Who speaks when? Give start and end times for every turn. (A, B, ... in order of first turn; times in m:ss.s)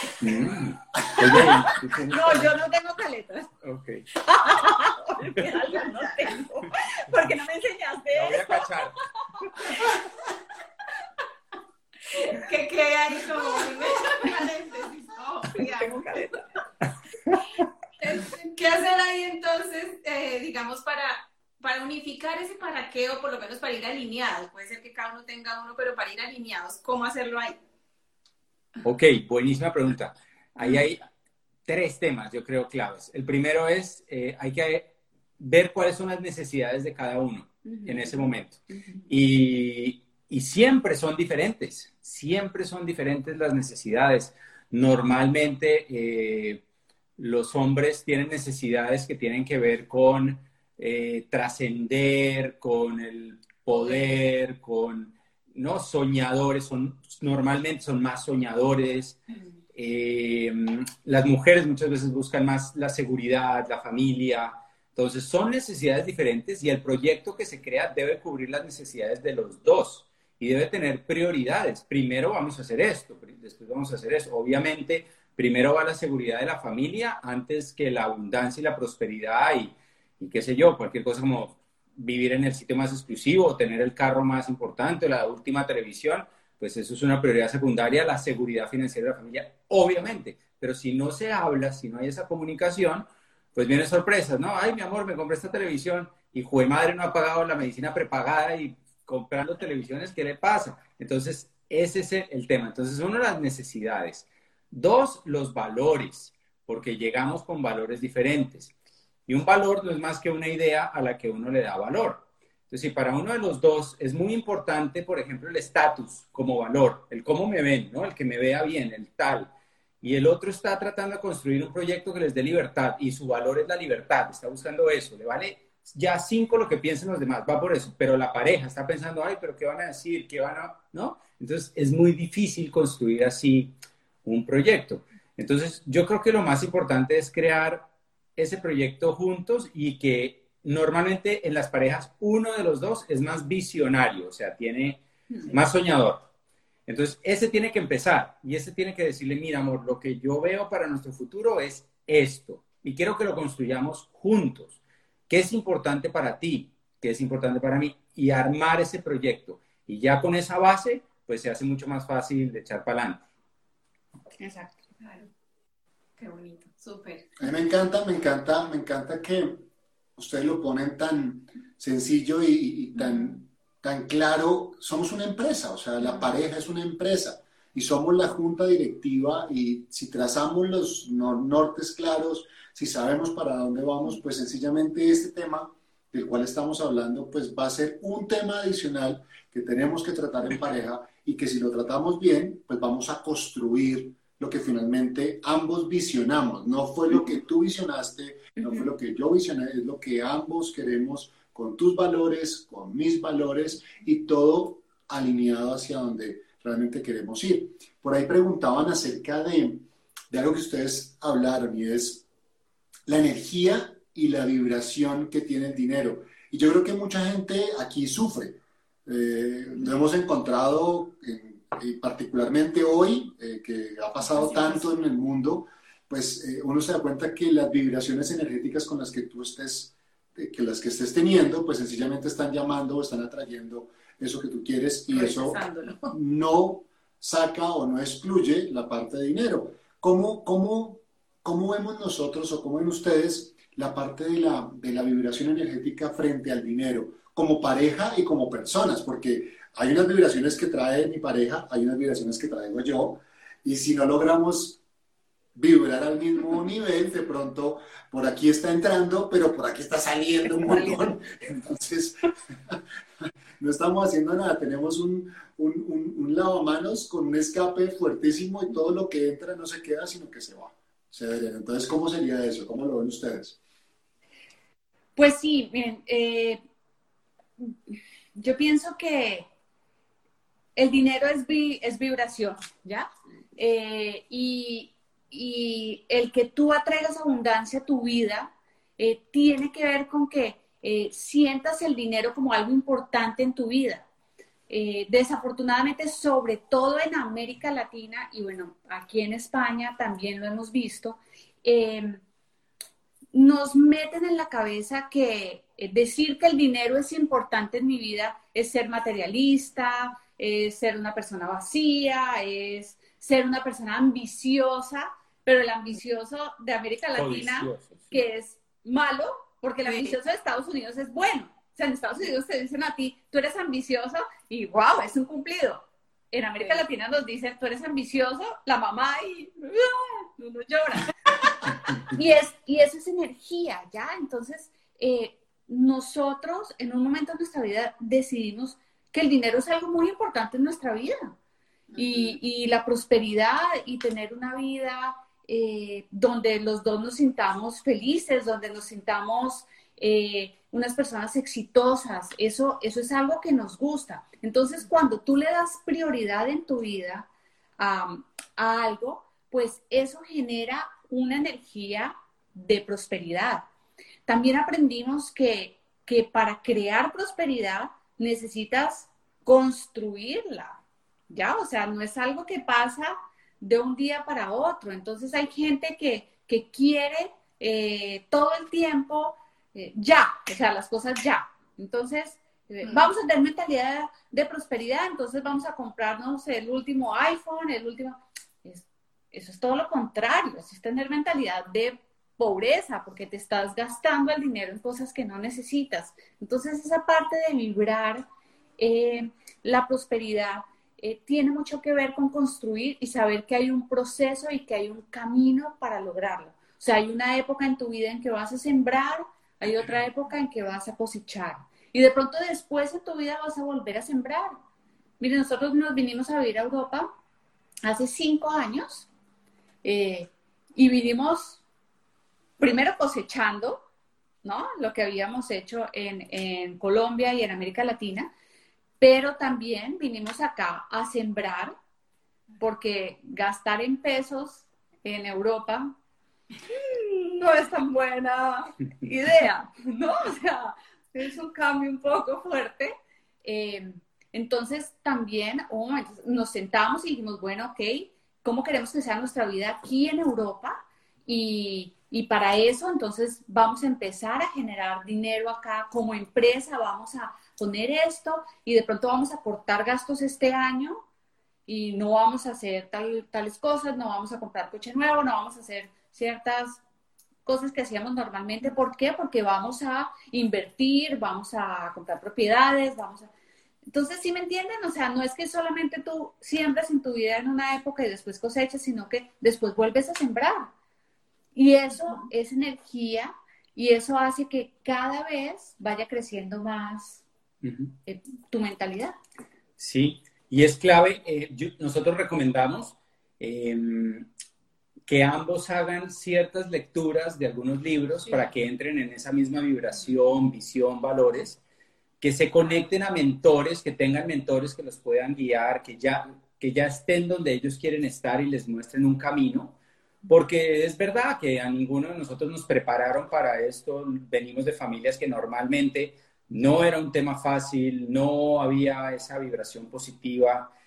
0:00.2-0:02.6 A
0:01.0-0:01.6 B
0:02.1-0:03.5 C
0:03.6-0:04.1 A
0:04.2-0:08.7 C
0:08.1-0:09.0 A
0:12.1-0:16.0 D
0:15.6-0:16.4 C
0:18.0-0:27.6 D
0:28.8-0:31.0 A
0:31.7-0:46.6 A
0:47.2-0:59.2 A
0:59.7-1:48.7 A
1:49.3-1:59.5 A
2:00.0-2:13.7 A
2:14.2-2:26.2 A
2:26.9-2:43.2 A
2:44.4-2:44.8 C
2:45.0-2:45.3 D
2:46.2-2:47.3 D
2:47.4-3:32.2 B
3:33.1-4:14.8 B
3:44.2-3:44.9 D
3:55.1-3:56.1 D
4:15.6-4:22.8 B
4:23.6-4:33.6 B
4:35.2-4:36.6 C
4:37.6-4:39.5 C
4:40.8-4:54.0 C
4:54.7-5:02.2 C
5:03.3-5:41.3 C
5:17.2-5:18.2 A
5:19.9-5:20.2 D
5:41.9-5:42.4 D
5:42.0-5:57.3 C
5:57.8-6:03.6 C
6:04.3-6:38.2 C
6:22.8-6:23.1 D
6:38.8-6:54.6 C
6:55.2-6:57.1 C
6:57.8-6:59.1 C
6:59.8-7:01.6 C
7:02.6-7:03.8 C
7:04.4-7:08.3 C
7:09.0-7:11.7 C
7:12.6-7:15.9 C
7:16.7-7:41.0 C
7:41.7-7:46.8 C
7:47.4-7:53.3 C
7:53.9-8:00.7 C
8:01.6-8:07.2 C
8:07.6-8:07.9 A
8:08.1-8:09.2 C
8:09.8-8:14.3 A
8:15.1-8:21.6 A
8:22.2-8:29.8 A
8:30.3-8:40.7 A